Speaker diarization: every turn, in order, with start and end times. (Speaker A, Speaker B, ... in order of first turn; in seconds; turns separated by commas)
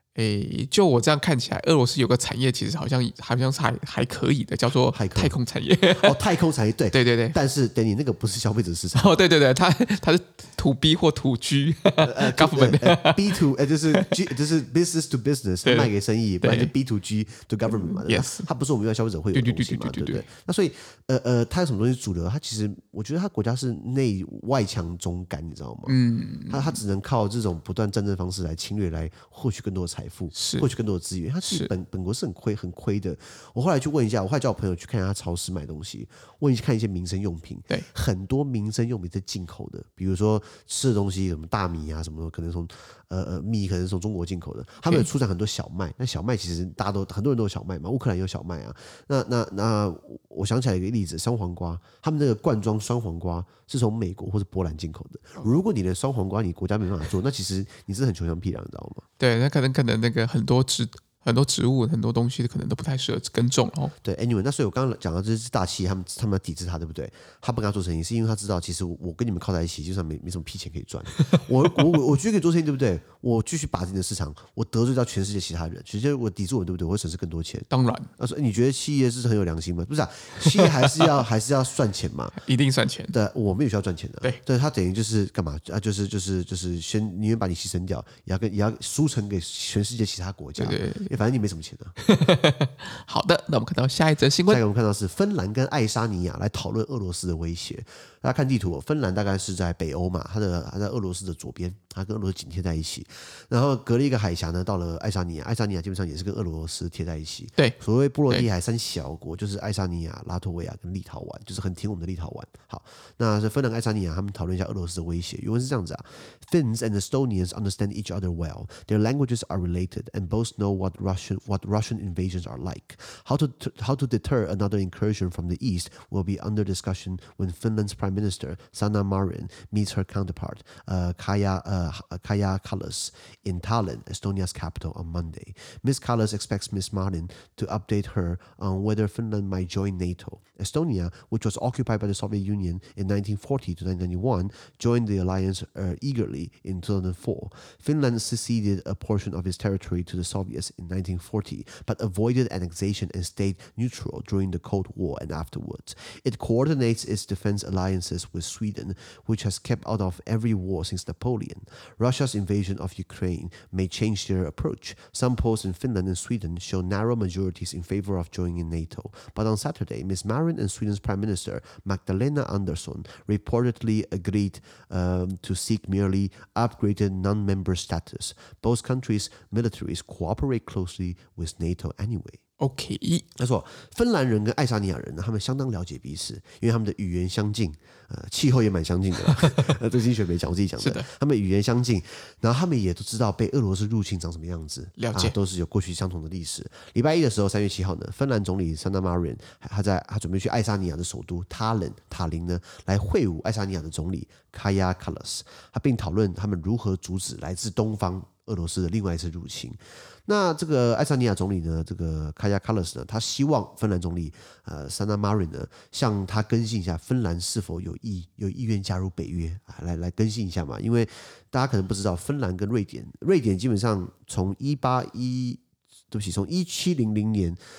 Speaker A: 0.2-6.2, Speaker B: 4.9-5.4, Speaker B: 5.9-9.2, Speaker A: 6.9-7.4, Speaker A: 8.9-13.4, Speaker B: 12.0-25.9, Speaker A: 15.6-15.9, Speaker A: 16.4-16.7, Speaker A: 17.7-18.5, Speaker A: 19.3-20.3, Speaker A: 25.9-26.8, Speaker B: 26.5-59.0, Speaker A: 30.4-30.7, Speaker A: 31.4-31.7, Speaker A: 59.2-63.9, Speaker B: 64.0-82.4, Speaker A: 77.7-78.1, Speaker A: 82.4-83.2, Speaker B: 83.1-92.0, Speaker A: 90.6-91.1, Speaker A: 92.0-94.6, Speaker B: 94.5-182.4, Speaker A: 182.6-183.2, Speaker B: 183.4-227.6, Speaker A: 190.8-191.1, Speaker A: 195.0-195.3